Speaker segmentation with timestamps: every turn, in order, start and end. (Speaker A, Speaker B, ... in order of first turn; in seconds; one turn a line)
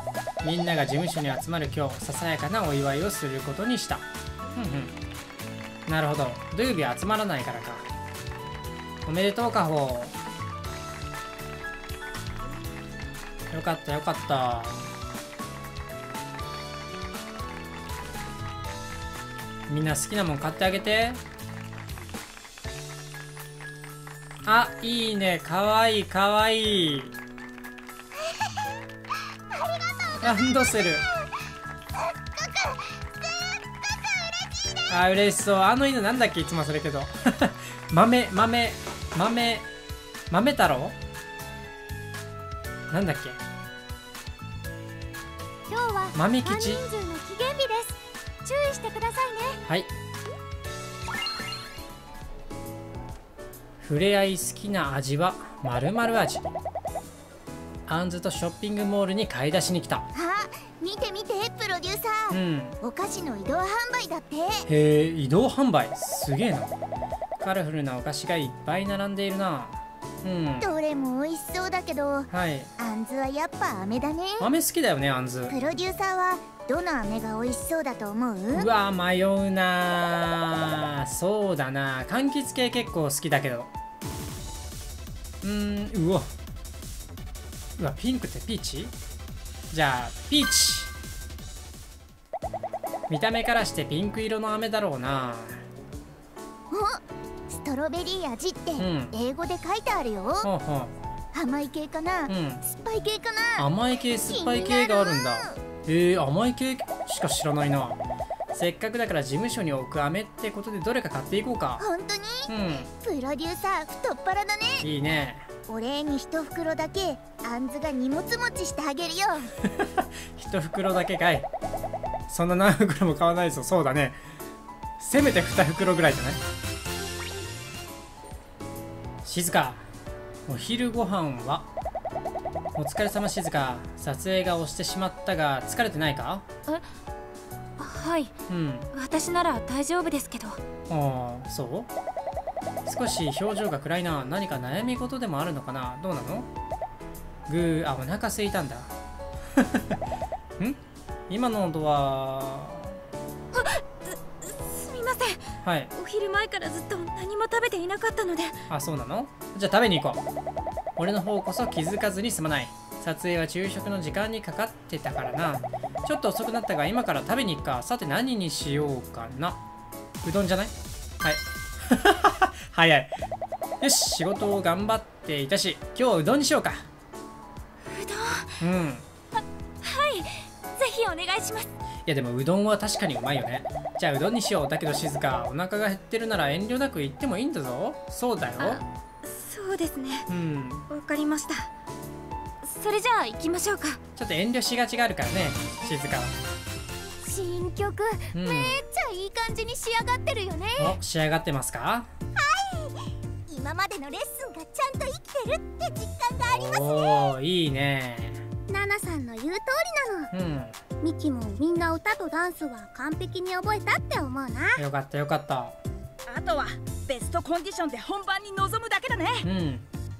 Speaker A: 0.4-4.9
Speaker A: 5.9-7.9
Speaker A: 9.0-10.1
Speaker A: 13.5-14.9
Speaker A: 19.7-21.2
Speaker A: 24.4-27.1
Speaker B: 29.5-31.1
Speaker A: 30.2-31.0
Speaker B: 32.1-34.9
Speaker A: 34.9-39.7
Speaker A: 40.3-41.0
Speaker A: 42.9-43.4
Speaker B: 45.7-47.9
Speaker A: 46.1-46.8
Speaker B: 48.5-49.6
Speaker A: 49.6-49.9
Speaker A: 53.8-56.5
Speaker A: 57.9-60.1
Speaker B: 60.1-64.7
Speaker A: 62.3-62.8
Speaker A: 64.7-66.7
Speaker A: 67.4-70.7
Speaker B: 70.6-74.5
Speaker A: 72.3-72.7
Speaker A: 74.4-75.5
Speaker B: 75.5-78.7
Speaker A: 78.5-83.7
Speaker A: 85.4-86.3
Speaker A: 87.8-88.9
Speaker A: 89.7-90.9
Speaker A: 93.1-95.6
Speaker B: 96.7-100.5
Speaker A: 98.8-99.1
Speaker A: 100.4-100.9
Speaker B: 101.3-103.7
Speaker A: 102.3-102.6
Speaker A: 103.6-108.0
Speaker B: 104.2-105.6
Speaker A: 108.5-111.9
Speaker B: 111.8-114.8
Speaker A: 112.5-112.9
Speaker A: 114.8-115.5
Speaker B: 115.7-119.5
Speaker A: 119.6-121.5
Speaker A: 122.3-124.2
Speaker A: 125.0-126.4
Speaker A: 129.2-129.8
Speaker A: 130.5-131.7
Speaker A: 132.7-136.4
Speaker C: 137.8-138.3
Speaker A: 138.5-138.9
Speaker C: 138.9-140.6
Speaker A: 140.9-141.9
Speaker A: 142.8-146.5
Speaker A: 147.5-148.9
Speaker A: 149.6-150.0
Speaker A: 150.6-153.0
Speaker C: 153.5-155.4
Speaker A: 155.6-155.9
Speaker C: 155.9-158.6
Speaker A: 158.7-160.2
Speaker A: 161.0-169.6
Speaker A: 170.2-173.2
Speaker A: 173.8-176.9
Speaker C: 177.9-178.6
Speaker A: 178.6-179.1
Speaker C: 179.8-181.7
Speaker A: 182.1-188.8
Speaker C: 188.6-190.3
Speaker A: 190.3-190.8
Speaker C: 190.9-191.7
Speaker C: 192.6-194.0
Speaker A: 194.1-196.4
Speaker B: 197.2-200.9
Speaker A: 198.3-198.8
Speaker A: 200.8-202.1
Speaker B: 202.3-207.2
Speaker A: 206.4-208.4
Speaker B: 208.7-210.3
Speaker A: 210.3-210.8
Speaker B: 211.0-214.8
Speaker A: 214.8-215.8
Speaker D: 216.3-219.4
Speaker A: 219.4-219.9